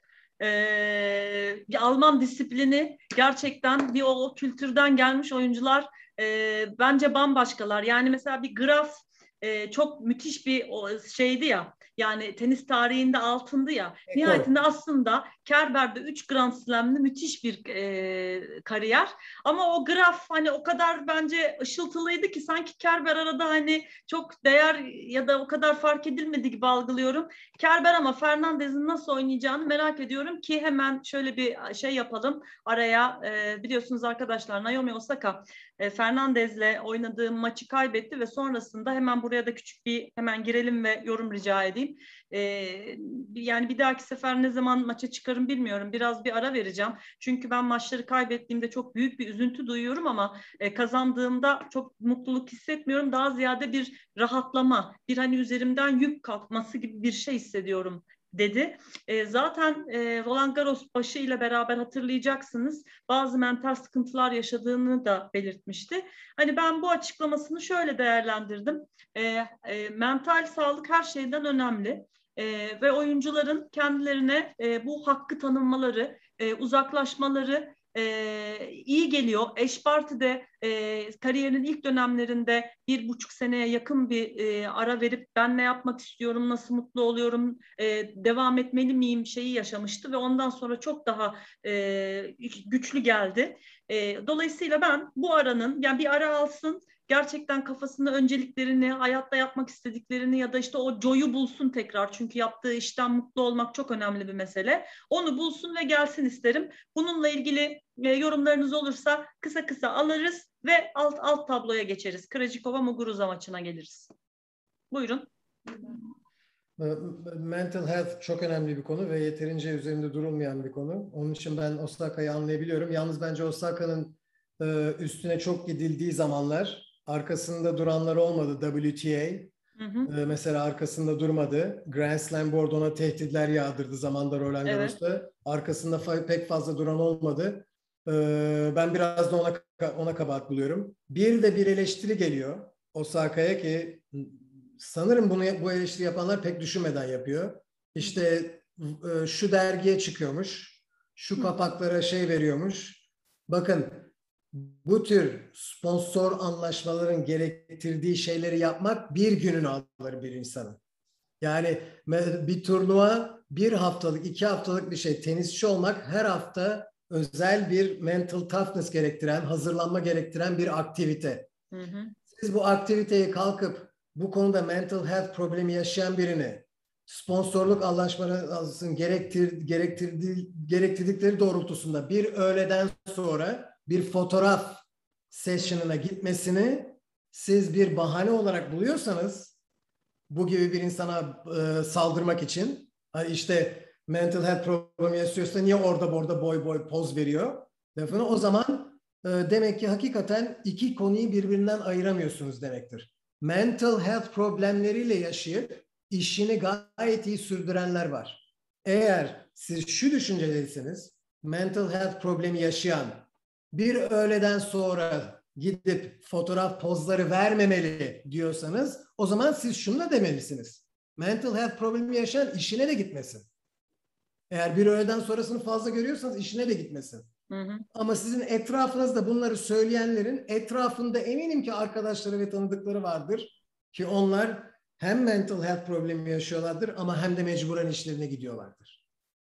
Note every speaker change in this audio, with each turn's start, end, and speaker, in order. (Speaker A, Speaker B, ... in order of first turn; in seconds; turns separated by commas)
Speaker A: 0.4-114.1, Speaker B: 14.1-14.5, Speaker A: 114.9-116.0, Speaker B: 116.8-129.5, Speaker A: 129.8-130.1, Speaker B: 130.1-160.8, Speaker A: 134.7-135.0, Speaker B: 161.4-171.5, Speaker A: 171.7-172.2, Speaker B: 172.3-189.6, Speaker A: 185.6-185.9, Speaker B: 190.3-223.5, Speaker A: 198.1-198.4, Speaker B: 224.5-227.3, Speaker A: 227.5-227.9, Speaker B: 227.9-239.0